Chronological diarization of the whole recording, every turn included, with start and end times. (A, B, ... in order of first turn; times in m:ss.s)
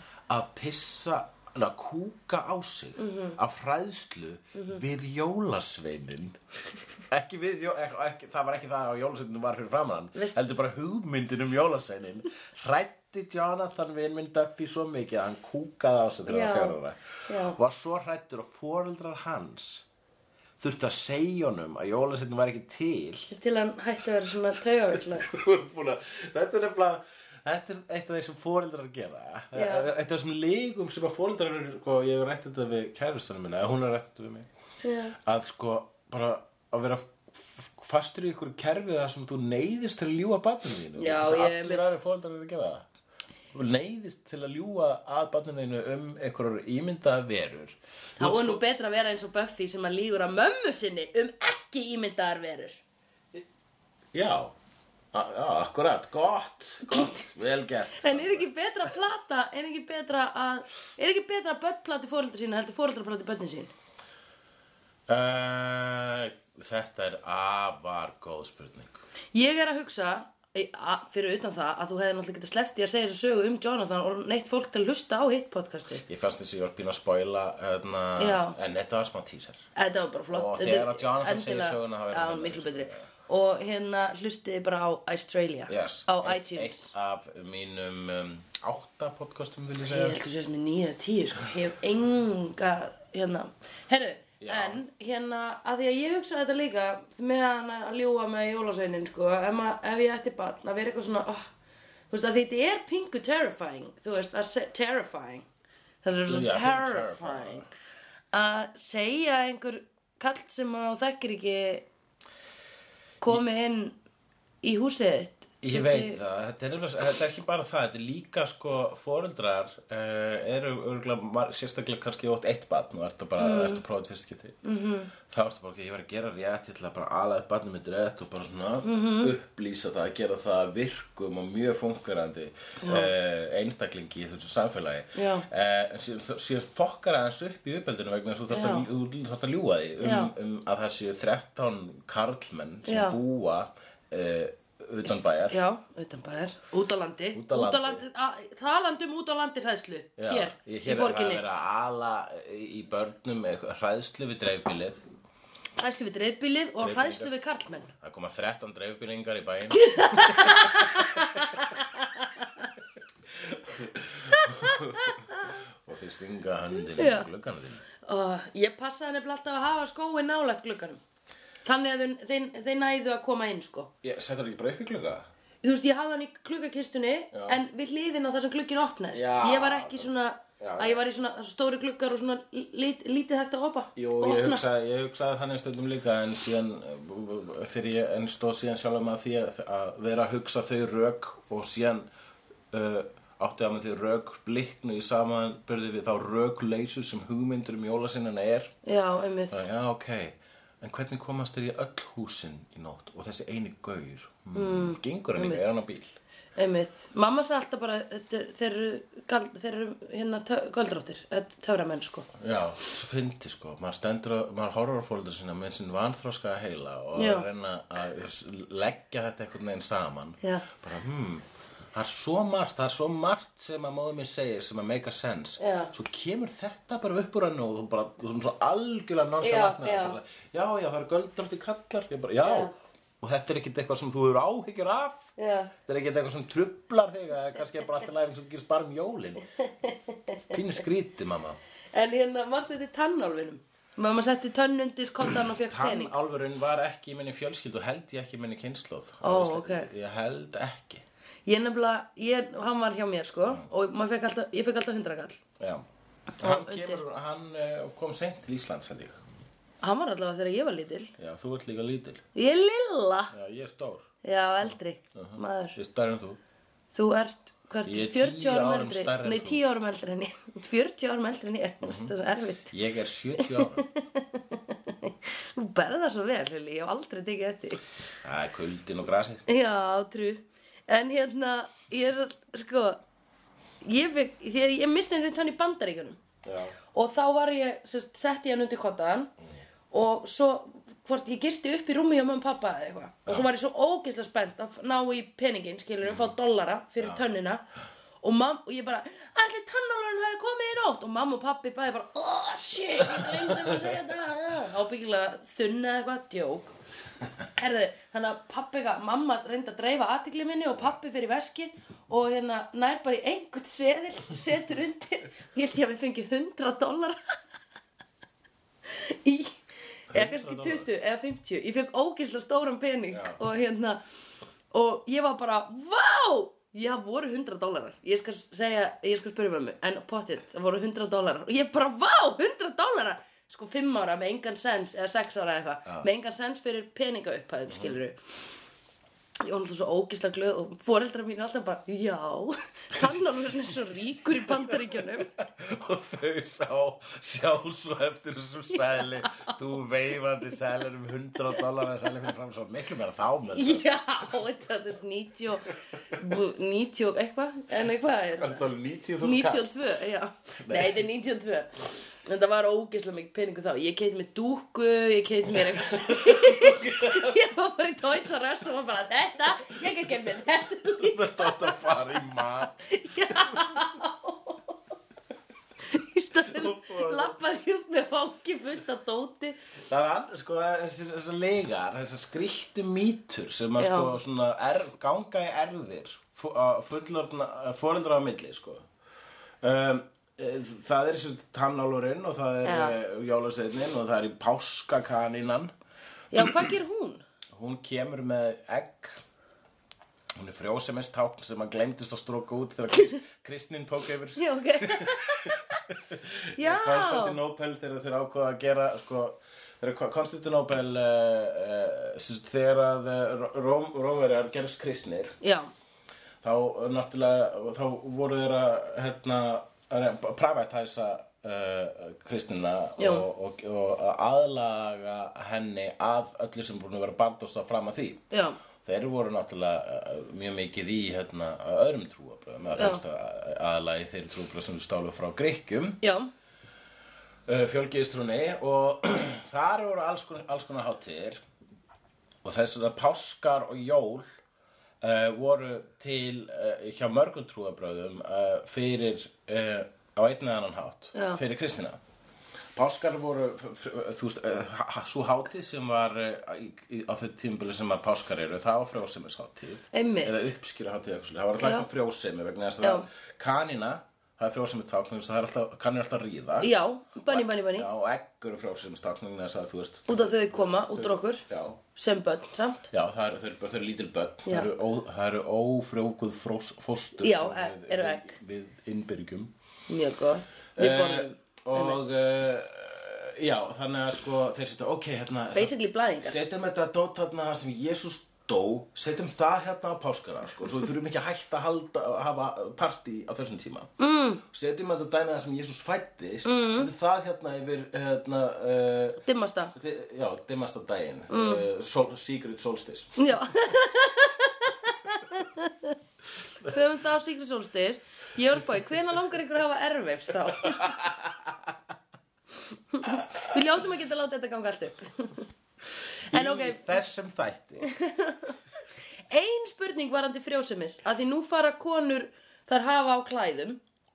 0:00.3-0:06.4 A
0:03.0-0:03.4 B
0:04.5-0:04.8 B
0:07.1-0:19.8 A
0:10.2-0:10.4 B
0:16.3-0:16.8 B
0:17.3-0:17.6 B
0:20.6-0:23.3 A
0:23.3-0:25.3 B
0:25.0-0:34.5 A
0:29.5-0:29.9 B
0:34.8-0:35.2 B
0:35.2-0:42.9 A
0:41.0-0:41.9 B
0:43.5-0:48.6 A
0:48.2-0:52.8 B
0:54.1-0:54.5 A
0:55.1-0:58.5 A
0:56.9-0:57.2 B
0:58.0-1:03.7 B
1:05.1-1:09.0 A
1:09.3-1:16.0 B
1:16.1-1:19.6 A
1:18.2-1:18.6 B
1:19.8-1:26.9 B
1:20.3-1:23.0 A
1:25.7-1:30.2 A
1:29.8-1:41.5 B
1:34.4-1:34.8 A
1:42.1-1:45.5 B
1:46.0-1:47.7 B
1:46.3-1:47.7 A
1:48.3-1:51.9 B
1:53.2-1:54.0 B
1:54.6-1:56.2 B
1:55.6-2:04.6 A
2:03.4-2:03.8 B
2:04.6-2:05.1 B
2:05.2-2:25.6 A
2:08.8-2:09.3 B
2:12.8-2:13.1 B
2:15.2-2:15.5 B
2:18.5-2:18.9 B
2:20.0-2:20.3 B
2:22.8-2:23.2 B
2:25.5-2:31.4 B
2:27.3-2:28.0 A
2:30.2-2:35.0 A
2:35.8-2:37.9 B
2:36.8-2:37.3 A
2:38.0-2:41.7 A
2:39.7-2:42.6 B
2:43.4-2:45.2 A
2:44.3-2:45.5 B
2:45.8-2:47.8 A
2:47.0-2:47.3 B
2:48.0-2:51.0 B
2:51.6-2:53.9 B
2:54.0-2:55.3 A
2:55.6-3:04.6 B
2:57.3-2:57.6 A
2:59.1-3:01.0 A
3:04.0-3:12.1 A
3:12.7-3:18.7 A
3:18.8-3:19.6 B
3:19.5-3:26.2 A
3:24.5-3:25.7 B
3:26.6-3:32.3 B
3:32.4-3:55.3 A
3:37.2-3:37.5 B
3:45.6-3:45.9 B
3:49.4-3:50.2 B
3:52.4-3:52.7 B
3:55.4-3:55.7 B
3:55.8-3:59.5 A
3:59.6-4:00.6 B
4:00.5-4:01.6 A
4:01.9-4:06.2 B
4:05.4-4:11.0 A
4:09.2-4:09.9 B
4:11.5-4:15.4 B
4:15.6-4:15.8 A
4:16.4-4:17.0 B
4:16.4-4:19.2 A
4:19.8-4:21.1 B
4:21.2-4:22.2 A
4:22.4-4:23.3 B
4:23.3-4:24.1 A
4:24.2-4:25.8 B
4:24.7-4:26.4 A
4:26.9-4:32.7 B
4:27.9-4:29.6 A
4:31.8-4:32.1 A
4:32.7-4:33.8 A
4:33.4-4:37.8 B
4:38.2-4:39.5 A
4:39.5-4:43.0 B
4:43.8-4:46.2 B
4:46.4-4:46.8 A
4:46.9-4:49.3 B
4:49.9-4:57.6 B
4:56.0-4:56.3 A
4:58.2-5:06.7 B
5:03.0-5:04.0 A
5:07.6-5:17.2 B
5:18.9-5:19.6 B
5:20.1-5:24.0 B
5:20.1-5:20.9 A
5:23.1-5:23.4 A
5:24.7-5:38.2 B
5:37.7-5:38.0 A
5:39.4-5:45.3 B
5:44.5-5:53.9 A
5:49.2-5:49.5 B
5:53.5-5:58.6 B
5:58.4-5:59.7 A
5:59.2-6:11.9 B
6:00.6-6:01.0 A
6:05.7-6:07.4 A
6:11.0-6:13.6 A
6:12.8-6:14.8 B
6:15.9-6:19.6 B
6:16.4-6:17.4 A
6:19.9-6:28.9 A
6:23.8-6:24.2 B
6:29.6-6:35.7 A
6:32.6-6:33.0 B
6:36.3-6:37.2 B
6:36.4-6:36.7 A
6:37.5-6:39.2 A
6:40.4-6:55.4 A
6:44.4-6:45.8 B
6:46.6-6:47.4 B
6:55.4-6:55.7 B
6:56.4-7:08.2 A
7:03.0-7:03.3 B
7:08.3-7:08.6 B
7:08.8-7:16.0 A
7:12.8-7:13.0 B
7:16.0-7:16.3 B
7:17.5-7:21.4 A
7:22.4-7:24.3 A
7:25.0-7:32.0 A
7:31.1-7:31.4 B
7:32.8-7:46.7 A
7:39.9-7:40.5 B
7:41.6-7:41.9 B
7:46.6-7:47.9 B
7:47.3-7:51.8 A
7:50.1-7:51.4 B
7:52.0-7:52.9 B
7:52.9-7:59.5 A
7:54.5-7:54.7 B
7:57.2-7:58.3 B
7:59.9-8:02.0 B
8:00.8-8:13.9 A
8:05.5-8:06.4 B
8:14.0-8:14.4 B
8:14.5-8:19.2 A
8:16.4-8:16.9 B
8:19.2-8:19.7 B
8:19.8-8:23.2 A
8:21.3-8:21.6 B
8:23.2-8:26.0 B
8:26.6-8:31.0 B
8:30.6-8:31.7 A
8:32.9-8:35.5 B
8:36.3-8:37.0 B
8:36.3-8:37.9 A
8:37.8-8:38.6 B
8:39.3-8:43.8 B